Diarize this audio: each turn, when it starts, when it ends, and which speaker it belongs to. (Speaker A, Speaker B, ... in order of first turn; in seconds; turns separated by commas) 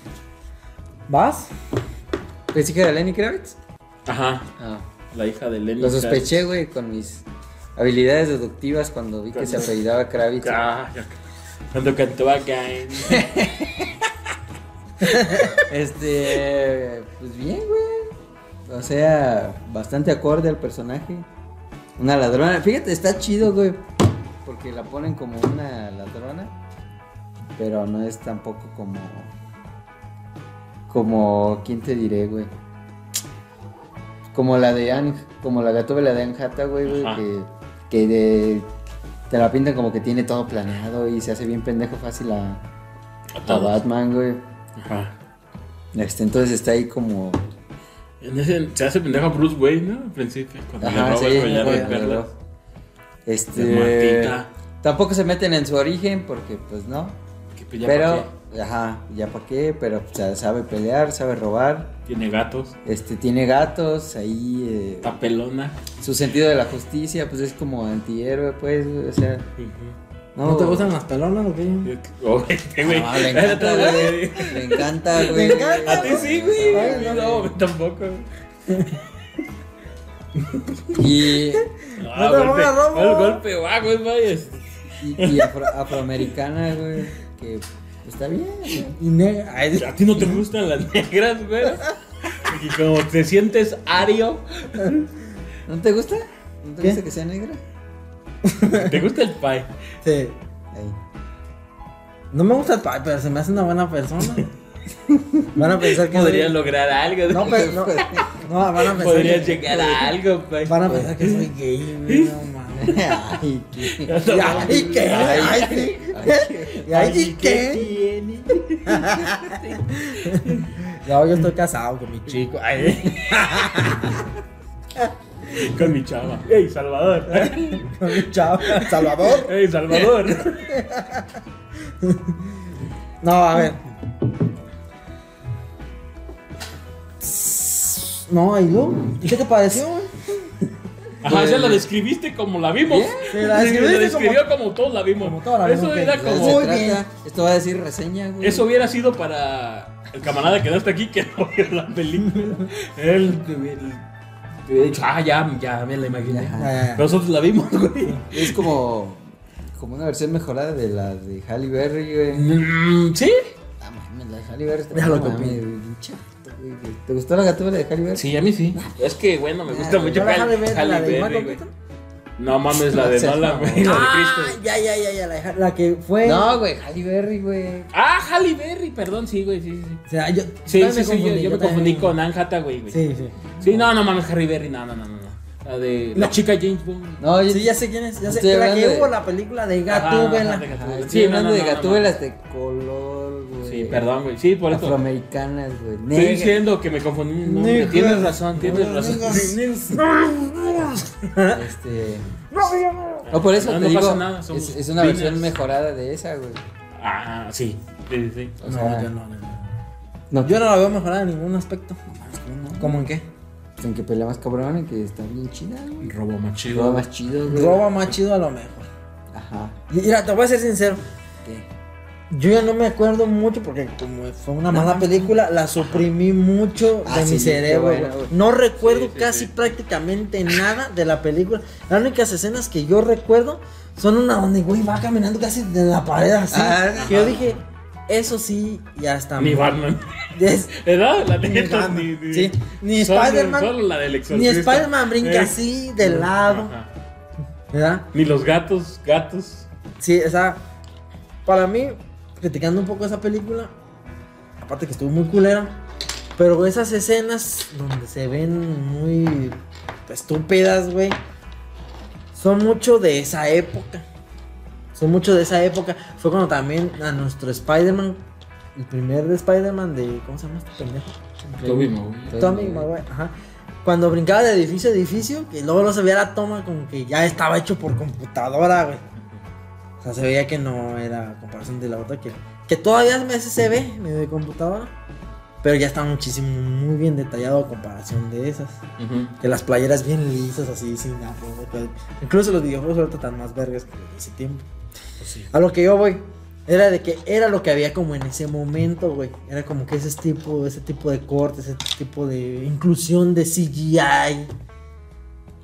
Speaker A: 1.1-1.5, Speaker B: 2.5-3.5, Speaker C: 4.0-4.5, Speaker B: 4.6-4.9, Speaker C: 5.1-6.5, Speaker B: 5.8-10.7, Speaker C: 9.3-9.7, Speaker C: 10.4-11.2, Speaker C: 11.7-13.3, Speaker B: 13.0-14.0, Speaker A: 15.1-15.5, Speaker B: 15.5-18.1, Speaker B: 18.6-21.3, Speaker B: 22.0-23.8, Speaker B: 24.4-26.6, Speaker B: 27.5-29.3, Speaker B: 30.9-32.5, Speaker B: 34.3-38.7, Speaker C: 36.9-37.2, Speaker B: 39.3-42.6, Speaker C: 43.3-43.8, Speaker B: 43.5-44.4, Speaker C: 44.8-45.1, Speaker B: 45.9-47.4, Speaker C: 48.2-52.3, Speaker B: 50.8-52.3, Speaker A: 51.5-51.9, Speaker B: 53.2-57.2, Speaker C: 53.5-54.5, Speaker C: 57.5-58.3, Speaker B: 57.8-61.9, Speaker C: 62.0-62.8, Speaker B: 62.8-65.2, Speaker C: 65.0-65.8, Speaker B: 66.0-69.5, Speaker C: 69.6-70.0, Speaker B: 70.3-71.0, Speaker A: 70.4-71.9, Speaker C: 71.8-78.3, Speaker B: 72.8-77.3, Speaker A: 75.2-77.5, Speaker B: 80.9-81.7, Speaker A: 81.5-83.4, Speaker C: 82.0-85.5, Speaker B: 85.0-89.0, Speaker C: 88.7-88.9, Speaker A: 89.0-90.4, Speaker C: 89.7-91.9, Speaker C: 92.4-95.1, Speaker B: 95.7-97.6, Speaker A: 98.4-99.1, Speaker C: 98.7-99.7, Speaker A: 100.0-100.4, Speaker B: 100.7-101.0, Speaker A: 102.3-104.5, Speaker B: 105.1-105.5, Speaker A: 105.5-106.5, Speaker C: 105.8-108.3, Speaker A: 107.3-109.9, Speaker B: 107.4-108.3, Speaker C: 108.9-111.4, Speaker B: 109.7-110.1, Speaker A: 110.6-113.1, Speaker C: 112.1-112.3, Speaker B: 112.8-116.8, Speaker C: 113.8-116.0, Speaker A: 114.3-117.9, Speaker C: 116.7-120.7, Speaker A: 118.8-124.2, Speaker C: 122.7-123.4, Speaker A: 125.0-125.9, Speaker C: 125.5-130.7, Speaker A: 127.3-131.4, Speaker A: 132.0-132.4, Speaker A: 133.2-133.8, Speaker A: 137.2-140.5, Speaker C: 141.2-146.7, Speaker B: 141.2-141.8, Speaker B: 142.8-143.3, Speaker A: 143.3-144.4, Speaker A: 145.2-147.0, Speaker B: 146.2-148.7, Speaker C: 148.4-154.0, Speaker C: 154.6-158.7, Speaker B: 156.2-156.9, Speaker A: 156.6-157.1, Speaker B: 158.3-162.5, Speaker C: 162.3-163.5, Speaker B: 163.8-169.0, Speaker A: 164.9-165.6, Speaker C: 168.1-171.6, Speaker B: 169.7-170.3, Speaker A: 170.0-171.7, Speaker C: 172.4-174.6, Speaker B: 172.7-174.1, Speaker A: 173.8-176.6, Speaker B: 176.2-177.9, Speaker C: 177.9-180.0, Speaker A: 180.1-182.1, Speaker C: 180.7-183.0, Speaker A: 182.9-183.8, Speaker C: 183.6-187.2, Speaker B: 187.2-189.1, Speaker A: 187.5-190.6, Speaker C: 189.9-192.2, Speaker B: 190.7-194.1, Speaker C: 193.6-195.0, Speaker B: 194.7-196.6, Speaker C: 196.1-200.0, Speaker A: 197.4-201.7, Speaker B: 201.5-202.3, Speaker A: 202.5-203.3, Speaker C: 203.3-205.6, Speaker B: 203.3-206.6, Speaker C: 206.9-208.6, Speaker B: 208.6-209.1, Speaker A: 208.6-209.7, Speaker B: 210.3-210.6, Speaker A: 210.4-212.0, Speaker B: 212.1-212.9, Speaker A: 212.8-213.2, Speaker B: 213.8-216.1, Speaker C: 216.0-217.1, Speaker B: 216.7-217.9, Speaker A: 217.4-218.9, Speaker B: 219.3-219.8, Speaker A: 219.9-221.0, Speaker A: 222.3-239.8, Speaker B: 224.7-225.3, Speaker C: 225.8-226.1, Speaker B: 227.0-228.3, Speaker C: 228.8-229.5, Speaker B: 236.5-237.4, Speaker C: 236.9-237.4, Speaker C: 239.4-240.1, Speaker A: 240.3-240.7, Speaker C: 240.7-246.9, Speaker A: 241.4-243.7, Speaker A: 244.3-246.7, Speaker A: 247.7-248.1, Speaker C: 248.1-249.7, Speaker A: 250.0-250.6, Speaker A: 251.4-253.7, Speaker A: 254.6-255.8, Speaker A: 256.4-259.6, Speaker A: 260.1-261.2, Speaker A: 262.3-264.0, Speaker A: 264.9-268.2, Speaker A: 268.8-271.2, Speaker C: 271.6-272.4, Speaker B: 271.6-272.9, Speaker A: 272.3-279.0, Speaker A: 280.0-284.9, Speaker A: 285.6-288.8, Speaker C: 289.0-289.3, Speaker A: 289.4-294.6, Speaker C: 295.2-295.5, Speaker A: 295.5-304.5